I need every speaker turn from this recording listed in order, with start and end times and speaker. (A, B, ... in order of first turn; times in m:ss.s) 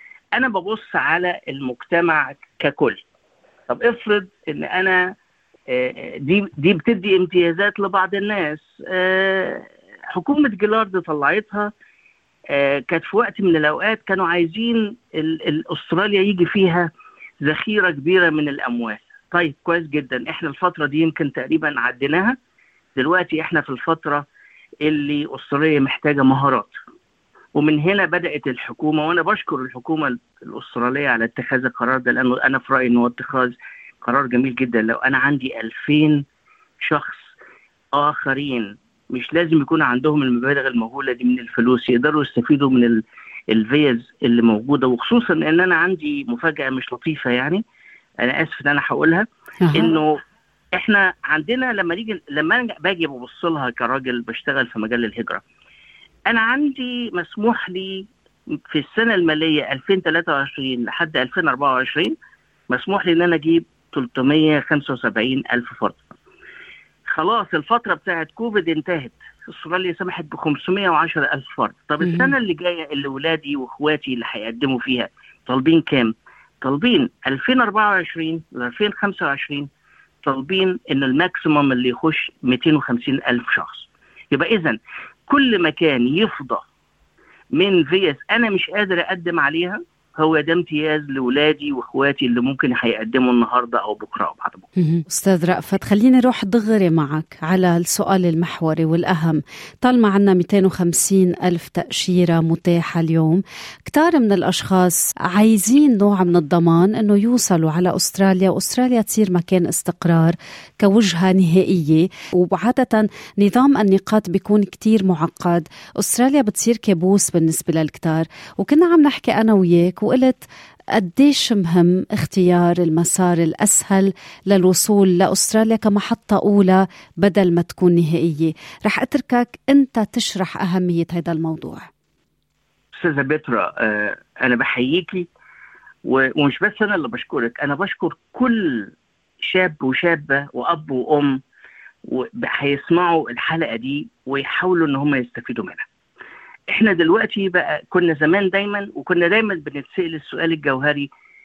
0:00.4-0:03.0 A
0:03.7-0:05.1 A
0:05.7-0:11.7 A
0:12.5-0:16.9 A
0:17.4-0:22.4 A
0:23.0-0:24.3 A
0:24.8-0:26.8 A
0:27.6-0:36.2 A
0:36.8-0:37.3 A
0:38.0-0:47.6 A
0:48.2-0:50.2 A
0:49.6-0:49.9 B
0:50.8-0:55.4 A
0:56.3-0:58.1 A
0:58.7-1:02.1 A
1:02.7-1:06.0 A
1:07.1-1:19.7 A
1:12.0-1:12.3 B
1:20.2-1:26.6 A
1:27.5-1:34.7 A
1:34.8-2:00.4 B
2:01.0-2:11.9 B
2:13.0-2:15.3 A
2:16.0-2:18.9 A
2:19.4-2:21.4 A
2:22.1-2:25.8 A
2:26.7-2:31.1 A